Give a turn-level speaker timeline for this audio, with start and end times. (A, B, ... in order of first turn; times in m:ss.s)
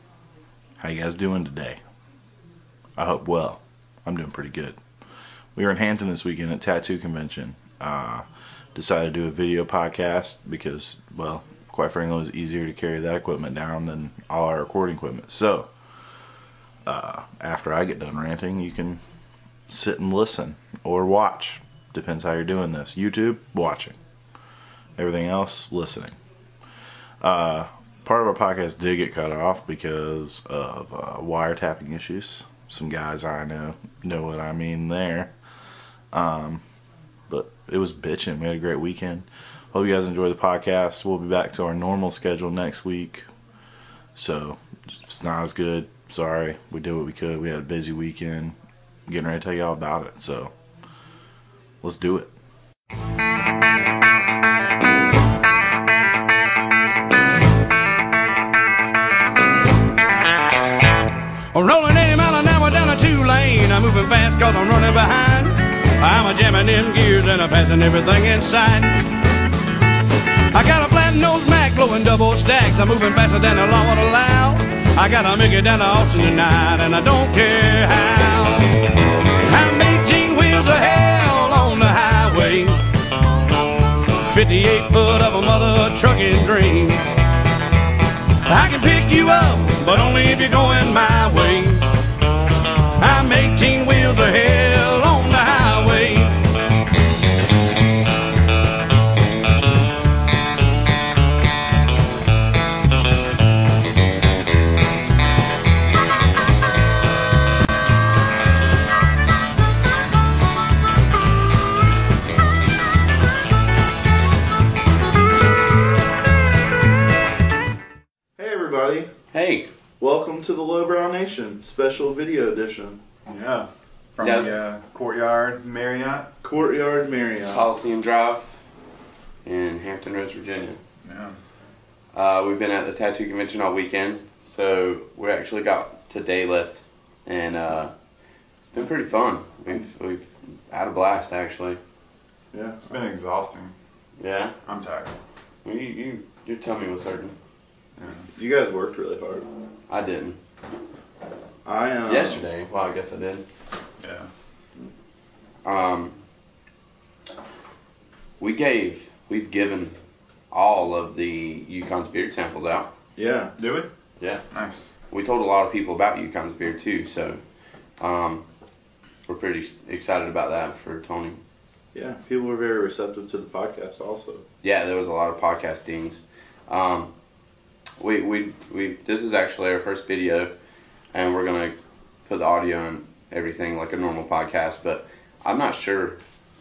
0:00.8-0:01.8 A
0:03.0-0:04.8 A
0:05.5-0:15.7 A
0:16.8-0:19.0 A
0:19.7-0:24.0 A
0:25.0-0:26.1 A
0:27.2-0:35.3 A
0:36.1-0:36.6 A
0:37.3-0:43.2 A
0:44.1-0:48.6 A
0:49.1-0:50.5 A
0:51.8-0:52.3 A
1:01.5-1:09.2 B
1:10.5-1:22.8 B
1:23.9-1:27.1 B
1:28.4-1:32.0 B
1:33.0-1:36.4 B
1:58.4-1:59.1 A
1:59.3-1:59.7 C
2:00.0-2:03.0 A
2:03.2-2:06.3 D
2:04.2-2:04.5 C
2:06.4-2:07.6 A
2:07.5-2:08.6 C
2:09.4-2:10.8 C
2:11.0-2:11.4 D
2:12.1-2:17.9 C
2:18.7-2:21.8 C
2:22.5-2:22.9 A
2:22.8-2:23.7 D
2:24.2-2:24.5 C
2:24.6-2:25.1 D
2:25.6-2:27.3 C
2:28.0-2:28.3 D
2:28.3-2:29.5 A
2:29.9-2:30.4 C
2:31.6-2:32.4 A
2:32.1-2:33.4 C
2:34.0-2:34.3 D
2:35.6-2:36.2 C
2:38.4-2:40.0 C
2:40.5-2:42.9 C
2:43.2-2:43.5 A
2:43.6-2:43.9 D
2:44.5-2:44.9 D
2:45.1-2:47.4 C
2:48.0-2:48.4 C
2:49.3-2:51.4 C
2:51.9-2:54.4 A
2:54.6-2:57.1 C
2:58.0-3:00.5 C
3:01.1-3:06.2 C